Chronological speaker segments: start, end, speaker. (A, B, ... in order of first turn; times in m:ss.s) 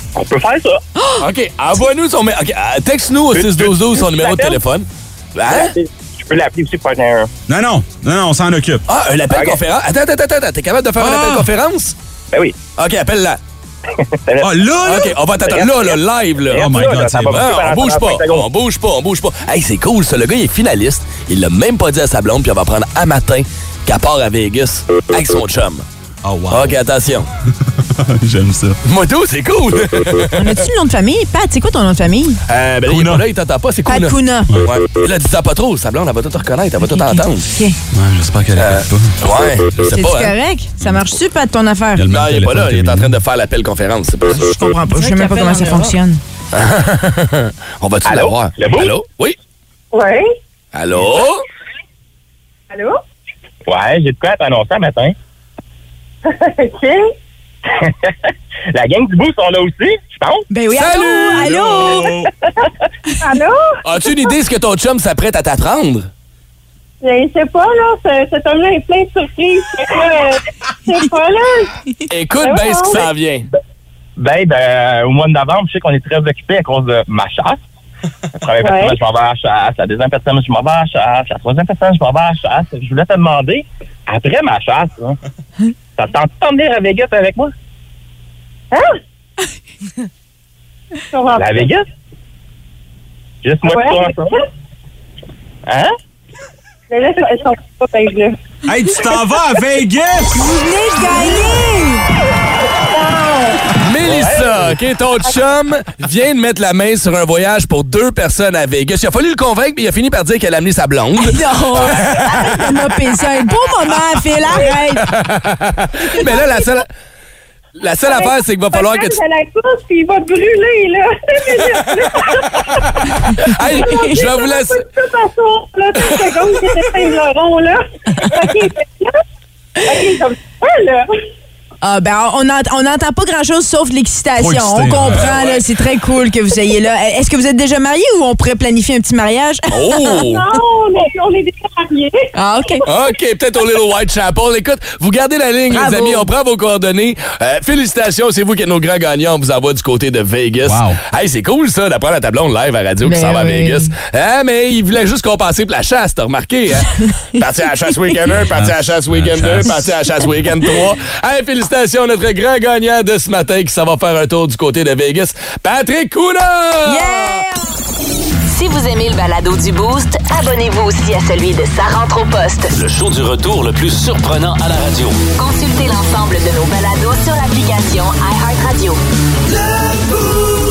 0:00.1-0:00.8 A
0:01.0-0:01.2 B
0:01.2-0:05.7 C
0:03.3-0:04.6 A
0:05.4-0:07.3 A
0:07.5-0:08.8 D
0:08.9-0:11.9 C
0:09.3-0:09.6 A
0:11.0-0:11.5 D
0:12.8-0:13.4 C
0:14.2-0:14.5 A
0:14.4-0:15.2 D
0:14.8-0:25.8 C
0:15.5-0:16.0 A
0:16.5-0:18.5 A
0:16.5-0:17.5 D
0:26.2-0:26.8 D
0:26.5-0:27.3 C
0:27.7-0:28.8 D
0:28.8-0:30.6 C
0:30.4-0:32.4 B
0:32.5-0:37.5 C
0:32.8-0:33.2 D
0:33.9-0:34.5 B
0:36.8-0:37.8 B
0:37.9-0:39.2 D
0:38.6-0:40.3 C
0:39.9-0:42.0 B
0:42.0-0:43.1 D
0:42.1-0:45.7 C
0:44.5-0:46.2 B
0:46.5-0:49.4 C
0:48.0-0:48.9 A
0:49.9-0:50.3 E
0:50.7-0:51.4 C
0:52.7-0:53.0 E
0:53.7-0:55.1 A
0:56.2-0:57.1 E
0:58.7-1:00.4 A
1:00.5-1:02.1 B
1:00.7-1:01.5 C
1:01.3-1:02.3 D
1:03.2-1:04.3 E
1:03.8-1:06.1 C
1:07.0-1:11.7 E
1:12.1-1:13.5 C
1:12.4-1:13.1 E
1:14.2-1:17.6 A
1:18.4-1:25.2 A
1:18.6-1:19.0 E
1:26.0-1:27.5 A
1:28.7-1:29.0 E
1:31.1-1:31.7 E
1:31.4-1:31.8 A
1:33.4-1:34.3 A
1:33.6-1:34.4 E
1:35.7-1:35.9 A
1:36.9-1:38.4 E
1:38.7-1:40.6 D
1:40.3-1:42.0 B
1:41.0-1:41.6 E
1:42.9-1:43.6 E
1:43.8-1:52.7 C
1:44.1-1:44.6 A
1:51.2-1:55.1 B
1:55.0-1:56.8 C
1:56.2-1:56.6 E
1:57.8-1:59.2 C
1:58.0-2:02.8 E
2:03.3-2:04.8 C
2:03.7-2:09.2 E
2:09.8-2:11.1 E
2:11.8-2:20.2 B
2:14.4-2:15.3 D
2:15.1-2:15.6 C
2:19.7-2:20.5 C
2:20.2-2:22.3 E
2:22.3-2:22.8 B
2:22.8-2:47.4 C
2:25.7-2:26.3 B
2:30.6-2:31.0 D
2:33.0-2:33.9 B
2:38.3-2:39.8 D
2:46.8-2:47.6 B
2:48.5-2:52.7 F
2:52.7-2:55.2 G
2:55.3-2:59.0 F